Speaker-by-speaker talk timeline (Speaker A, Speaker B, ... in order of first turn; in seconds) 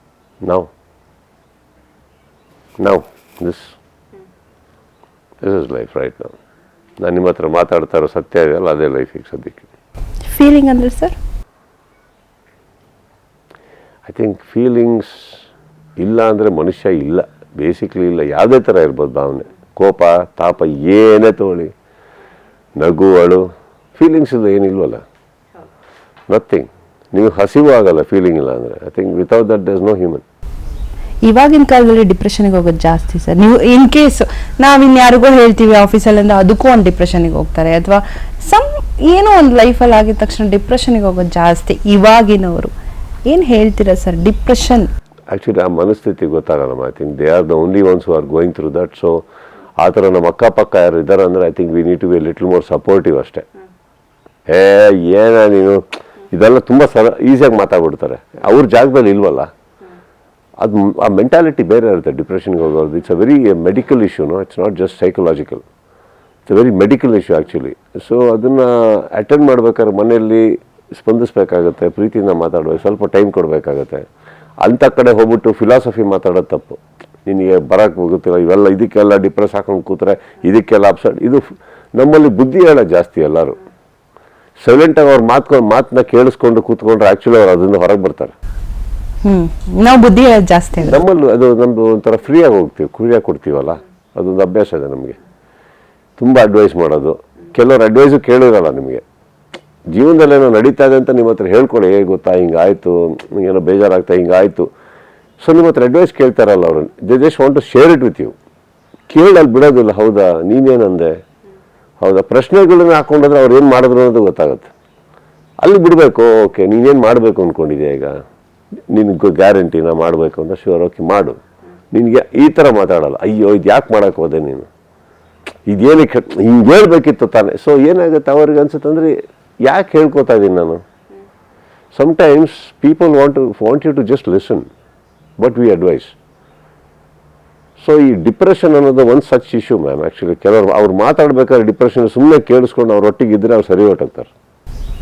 Speaker A: 0.4-0.7, 2.8-3.7, 5.4-6.3, 7.0-9.7, 14.1-15.4, 16.0-21.7, 22.8-23.4, 24.0-25.0, 26.3-30.2, 45.3-49.2, 49.8-53.4, 54.5-59.5, 60.6-65.6, 66.5-74.0, 74.6-81.4, 82.0-83.6, 84.6-88.3, 90.8-95.2, 96.2-99.0, 99.9-104.7, 105.4-108.3, 109.1-111.2, 112.0-114.7, 115.6-118.2, 118.9-121.4, 121.9-124.7, 125.7-130.8, 131.9-134.7, 135.4-136.1, 137.8-144.3
Speaker B: 10.2-11.2, 31.2-42.7, 43.3-44.9, 89.2-91.0